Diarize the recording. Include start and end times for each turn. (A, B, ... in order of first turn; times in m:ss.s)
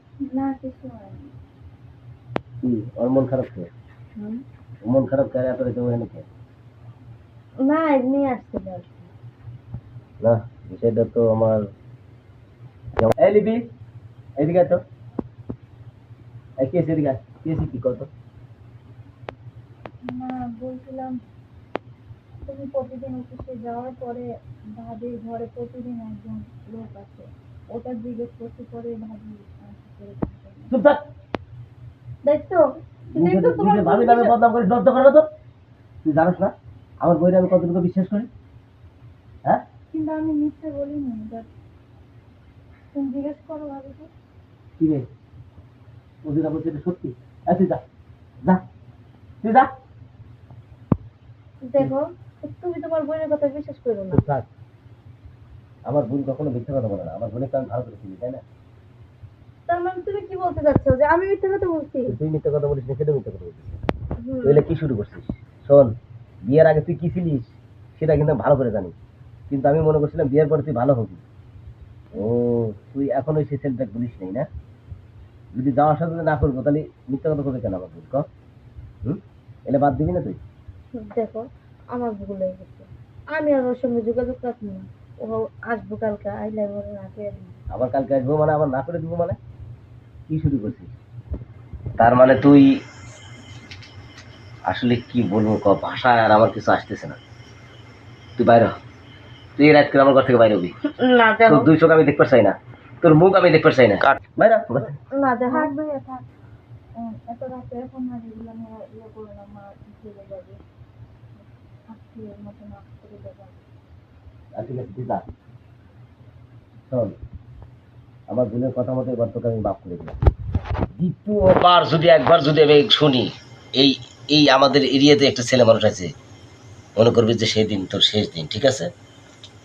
0:00.2-0:01.3 A
0:02.6-0:03.7 B
0:04.2-0:04.4 C
0:04.8-0:06.2 B
0:07.6-0:09.1 C
0:10.2-0:11.7 B
0:13.0-0:13.6 B
0:14.4-0:14.8 B
0:16.6-0:18.1 B
0:20.0-0:21.2 A
0:22.4-0:30.7 A
0:30.7-0:31.0 B
0:32.2-0:34.3 C
0:33.1-0:35.2 B
0:36.0-0:38.3 B
0:39.9-0:41.5 A
0:42.9-0:44.1 A
0:44.8-0:45.0 B
0:46.2-0:47.8 B
0:49.4-0:49.7 B
0:51.6-0:54.2 C
0:54.1-0:54.5 B
0:55.9-0:58.4 B
0:59.7-1:02.1 C
1:02.1-1:03.7 B
1:04.2-1:04.6 C
1:04.4-1:05.9 B
1:06.4-1:08.9 B
1:09.5-1:11.2 B
1:12.1-1:14.5 B
1:15.5-1:18.2 B
1:19.0-1:20.4 B
1:20.9-1:27.6 C
1:27.7-1:29.4 B
1:30.3-1:30.9 B
1:32.0-1:32.7 B
1:34.6-1:37.2 B
1:38.4-1:38.7 B
1:39.6-1:40.7 B
1:40.8-1:41.7 C
1:41.5-1:44.9 B
1:45.1-1:45.7 C
1:45.4-1:46.2 A
1:47.0-1:50.6 A
1:51.9-1:53.6 A
1:54.5-1:55.2 B
1:56.9-1:57.1 B
1:58.3-2:00.2 B
2:01.0-2:06.1 B
2:07.0-2:08.9 B